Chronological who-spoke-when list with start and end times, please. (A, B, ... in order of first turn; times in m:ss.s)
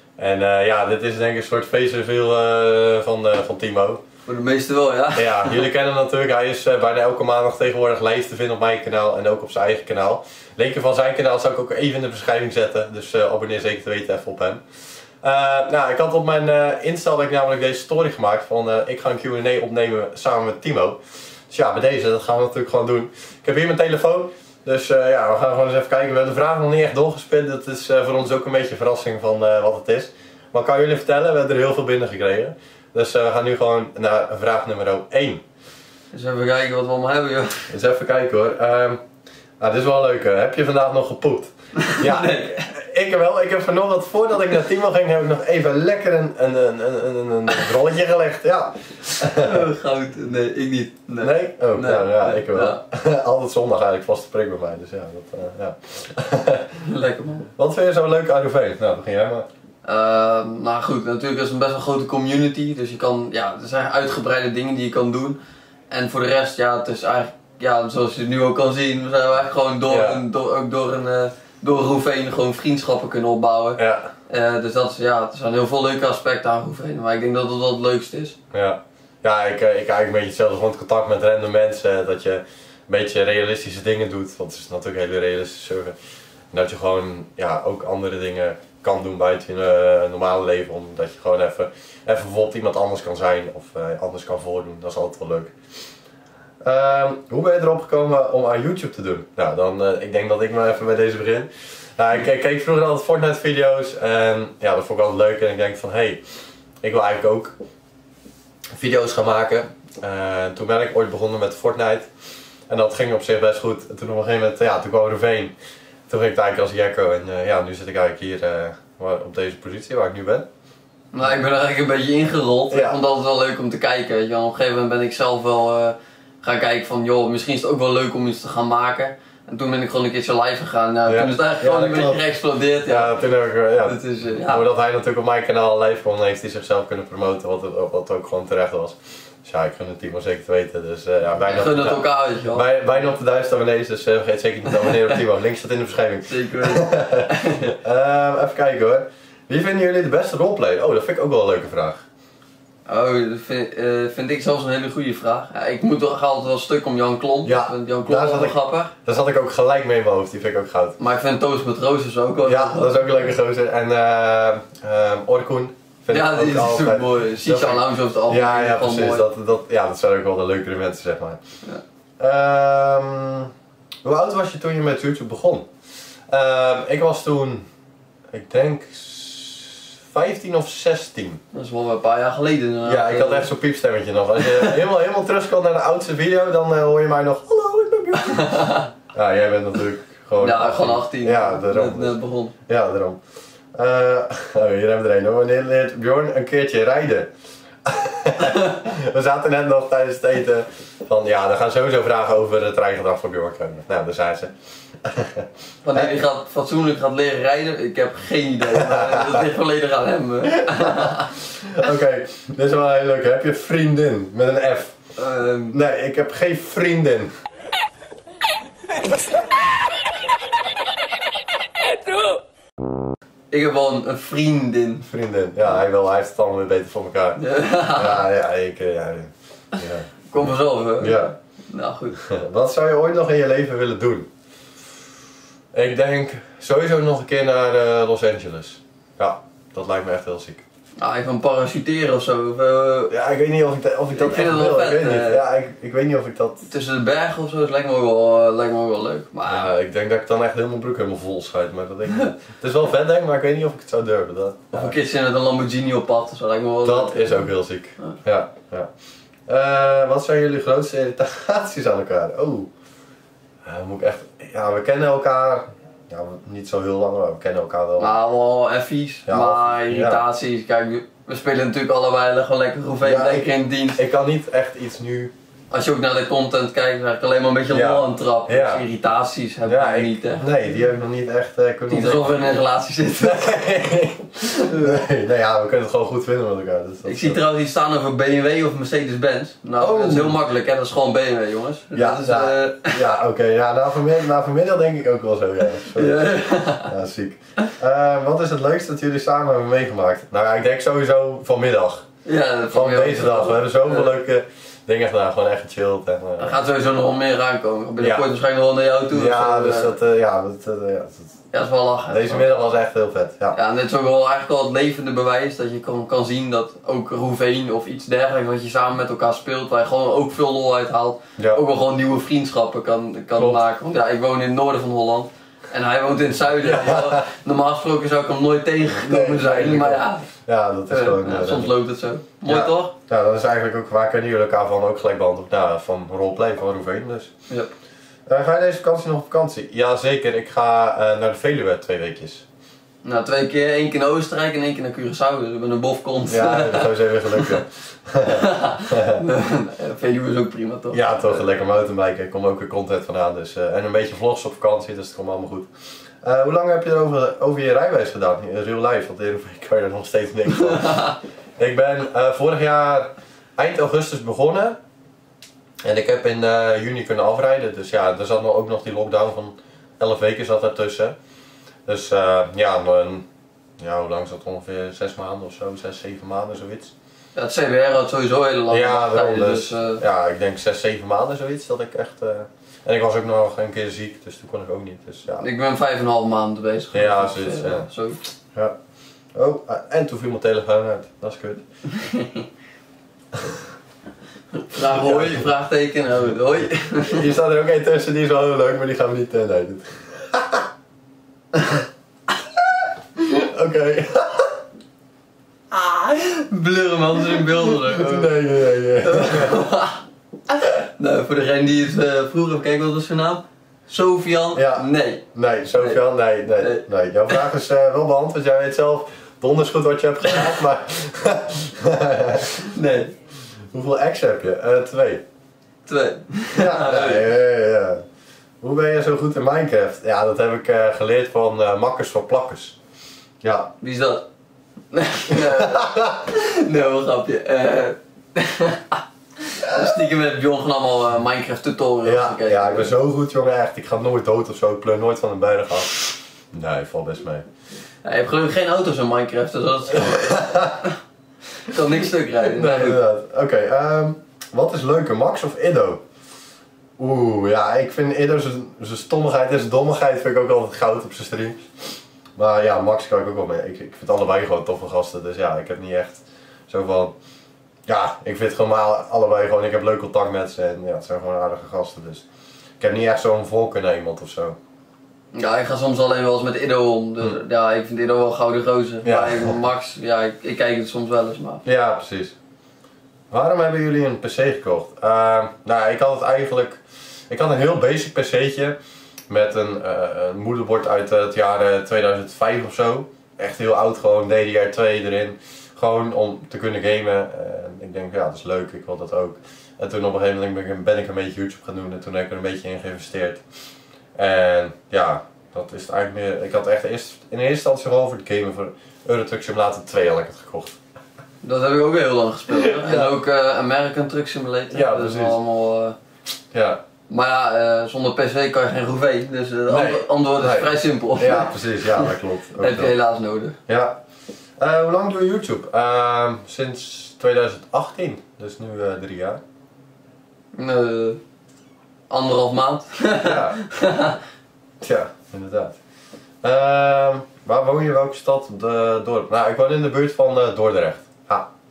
0:00.2-0:04.0 A
0:04.3-0:05.7 B
0:05.2-0:14.6 A
0:15.2-0:35.4 A
0:36.1-0:37.7 B
0:37.7-0:39.0 A
0:39.6-0:49.6 A
0:41.8-0:42.6 B
0:49.2-0:52.8 B
0:51.2-0:56.8 A
0:56.8-0:57.5 B
0:57.6-0:59.5 A
0:59.8-1:05.4 B
1:05.9-1:18.4 B
1:09.9-1:10.2 A
1:13.8-1:14.1 A
1:18.5-1:26.0 A
1:26.5-1:35.5 A
1:36.6-1:46.2 A
1:46.8-1:47.6 A
1:48.8-1:52.1 A
1:52.7-1:55.5 A
1:56.1-2:00.5 A
2:01.1-2:14.6 B
2:02.7-2:03.0 A
2:11.1-2:12.2 A
2:12.8-2:32.0 A
2:21.5-2:22.9 B
2:24.7-2:25.2 B
2:26.3-2:27.7 B
2:32.9-2:38.9 B
2:37.4-2:41.0 A
2:41.0-2:43.3 B
2:42.4-2:51.4 A
2:46.1-2:49.3 B
2:52.2-2:53.5 A
2:54.0-2:55.7 A
2:56.3-2:57.6 A
2:58.3-3:01.4 A
3:01.5-3:03.5 B
3:02.8-3:13.2 A
3:04.4-3:04.7 B
3:08.2-3:08.9 B
3:10.4-3:12.5 B
3:13.8-3:17.3 A
3:17.8-3:24.5 A
3:25.0-3:26.1 A
3:25.8-3:31.3 B
3:28.8-3:29.4 A
3:30.7-3:35.0 A
3:35.2-3:35.8 B
3:35.7-3:37.3 A
3:43.5-3:45.0 B
3:45.0-3:51.3 A
3:47.4-3:48.2 B
3:50.3-3:52.2 B
3:52.2-3:54.3 A
3:55.7-4:00.6 A
4:01.0-4:03.1 B
4:03.1-4:06.7 A
4:04.1-4:05.4 B
4:06.7-4:09.7 B
4:09.5-4:15.0 A
4:14.7-4:18.2 B
4:16.8-4:18.9 A
4:19.5-4:22.7 A
4:23.6-4:28.2 A
4:28.0-4:34.0 B
4:29.3-4:30.2 A
4:33.0-4:35.3 A
4:35.7-4:40.6 B
4:37.7-4:38.8 A
4:39.6-4:42.3 A
4:41.9-4:43.7 B
4:43.2-4:47.4 A
4:44.4-4:45.0 B
4:47.0-4:53.1 B
4:49.8-4:50.4 A
4:51.9-5:02.1 A
4:55.8-4:56.9 B
5:02.3-5:04.1 B
5:02.7-5:06.6 A
5:06.4-5:10.0 B
5:08.0-5:08.3 A
5:09.1-5:11.3 A
5:11.5-5:12.5 B
5:12.1-5:13.6 A
5:13.5-5:30.2 B
5:21.4-5:21.6 A
5:23.3-5:23.6 A
5:26.6-5:27.2 A
5:28.9-5:31.7 A
5:30.9-5:32.9 B
5:32.5-5:37.3 A
5:38.3-5:42.4 A
5:43.0-5:47.6 B
5:46.3-5:49.2 A
5:48.3-5:51.5 B
5:50.9-5:55.7 A
5:56.2-6:04.8 A
6:00.5-6:01.2 B
6:05.8-6:11.2 A
6:11.9-6:13.2 A
6:13.8-6:16.9 A
6:17.4-6:20.0 B
6:18.7-6:25.5 A
6:25.4-6:28.3 B
6:26.9-6:27.9 A
6:29.4-6:31.6 A
6:31.9-6:32.5 B
6:34.6-6:37.3 B
6:34.8-6:35.4 A
6:37.1-6:40.6 A
6:43.2-6:44.5 A
6:45.7-6:55.2 B
6:47.4-6:49.6 A
6:54.5-7:02.6 A
6:56.6-6:57.4 B
7:02.6-7:03.1 B
7:03.7-7:05.2 A
7:05.9-7:07.3 B
7:06.5-7:08.0 A
7:08.6-7:12.8 A
7:13.4-7:13.7 A
7:13.8-7:14.2 B
7:14.9-7:23.0 B
7:15.4-7:16.3 A
7:22.0-7:26.0 A
7:26.5-7:27.5 A
7:28.0-7:31.0 B
7:30.0-7:30.8 A
7:31.6-7:33.0 B
7:32.5-7:36.0 A
7:37.0-7:41.6 A
7:42.4-7:47.1 A
7:47.9-7:52.2 A
7:52.8-7:54.6 A
7:55.3-8:01.6 B
7:59.0-7:59.6 A
8:01.6-8:02.4 A
8:03.3-8:08.8 A
8:09.3-8:23.4 A
8:24.2-8:30.8 A
8:31.4-8:36.0 B
8:32.6-8:33.1 A
8:34.7-8:35.4 A
8:36.5-8:36.8 A
8:37.1-8:43.6 B
8:39.7-8:43.0 A
8:43.7-8:44.0 A
8:44.6-8:49.4 A
8:50.6-8:51.2 B
8:52.1-8:54.2 B
8:53.2-8:53.6 A
8:54.8-8:55.8 A
8:56.4-9:01.5 A